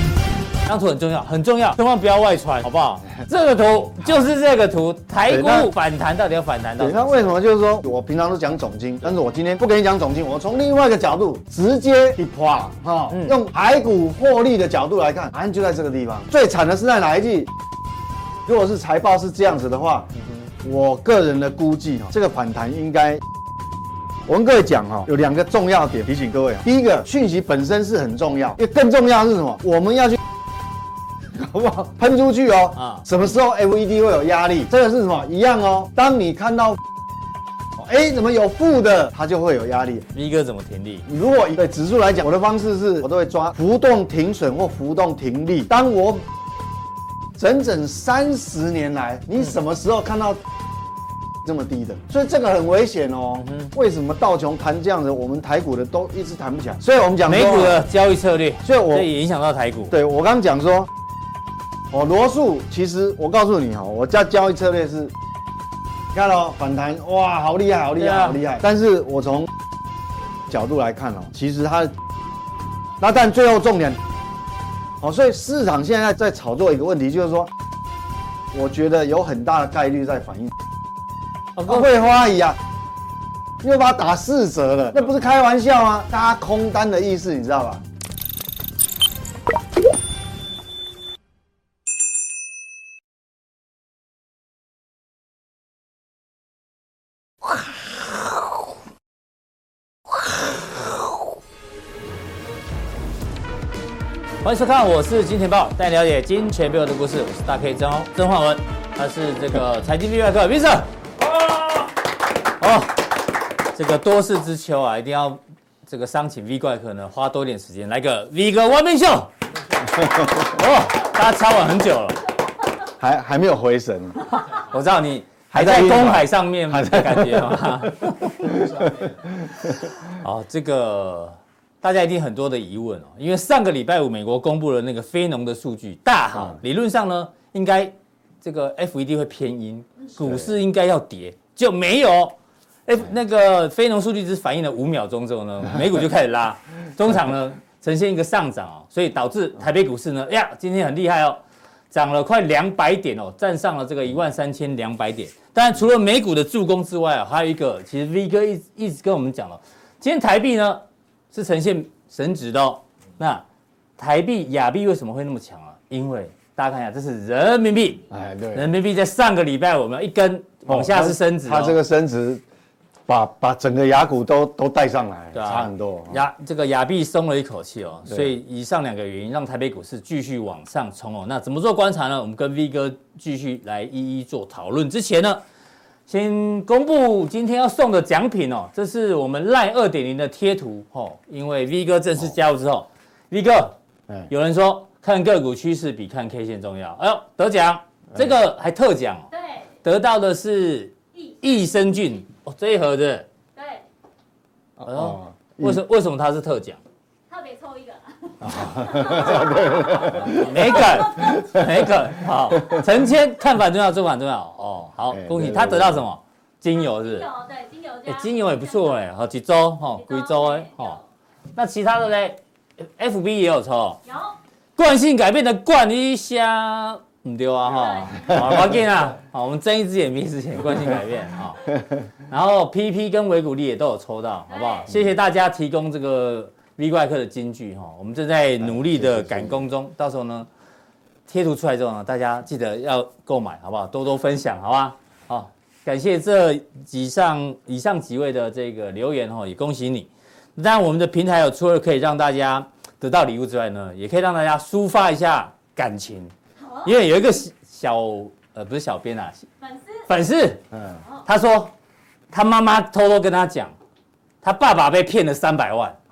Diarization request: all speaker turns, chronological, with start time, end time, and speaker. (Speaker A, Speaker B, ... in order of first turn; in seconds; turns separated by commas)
Speaker A: 0.7-7.4, Speaker B: 5.3-5.7, Speaker B: 6.8-17.5, Speaker A: 13.1-13.4, Speaker B: 18.5-20.1, Speaker A: 20.2-20.5, Speaker B: 20.6-23.2, Speaker B: 24.3-30.2, Speaker B: 31.3-36.8, Speaker A: 32.8-33.1, Speaker B: 37.8-40.1, Speaker A: 40.1-41.1, Speaker B: 41.1-46.3, Speaker B: 47.4-50.4, Speaker B: 51.4-57.8, Speaker A: 53.5-53.7, Speaker A: 57.2-60.0, Speaker B: 58.6-59.1, Speaker B: 59.9-60.9, Speaker B: 61.9-65.1, Speaker B: 66.1-69.5, Speaker A: 68.0-68.4, Speaker B: 70.5-71.9, Speaker B: 73.0-74.0, Speaker B: 75.0-77.5, Speaker B: 78.5-80.5, Speaker A: 81.6-81.9, Speaker B: 81.7-82.6, Speaker B: 83.6-87.8, Speaker A: 104.4-111.9, Speaker A: 112.6-113.1, Speaker A: 113.7-119.3, Speaker B: 120.0-120.3, Speaker A: 120.0-122.2, Speaker B: 123.0-124.2, Speaker A: 124.5-128.9, Speaker B: 125.5-129.9, Speaker A: 130.1-142.3, Speaker B: 140.2-140.5, Speaker A: 142.9-163.4, Speaker A: 164.0-171.8, Speaker B: 168.1-168.7, Speaker B: 170.7-172.4, Speaker B: 173.1-176.2, Speaker A: 175.3-185.4, Speaker A: 186.1-193.8, Speaker A: 194.3-199.3, Speaker C: 199.3-199.8, Speaker A: 199.8-203.3, Speaker C: 201.2-201.4, Speaker C: 203.6-203.9, Speaker B: 204.8-205.8, Speaker A: 204.9-206.8, Speaker C: 207.3-211.5, Speaker B: 208.4-211.9, Speaker A: 210.0-217.3, Speaker B: 212.6-212.8, Speaker B: 215.1-216.0, Speaker C: 216.7-219.1, Speaker A: 218.1-221.0, Speaker C: 220.0-221.0, Speaker A: 221.6-224.0, Speaker C: 224.1-224.4, Speaker A: 224.8-231.7, Speaker C: 227.6-228.7, Speaker B: 228.3-228.7, Speaker A: 232.3-240.5, Speaker C: 234.5-234.9, Speaker B: 238.6-239.7, Speaker A: 241.3-256.3, Speaker C: 256.6-256.9, Speaker A: 256.9-259.5, Speaker C: 259.6-260.1, Speaker A: 260.1-260.6, Speaker B: 260.7-261.0, Speaker A: 261.2-261.7, Speaker A: 262.3-263.7, Speaker A: 264.4-266.0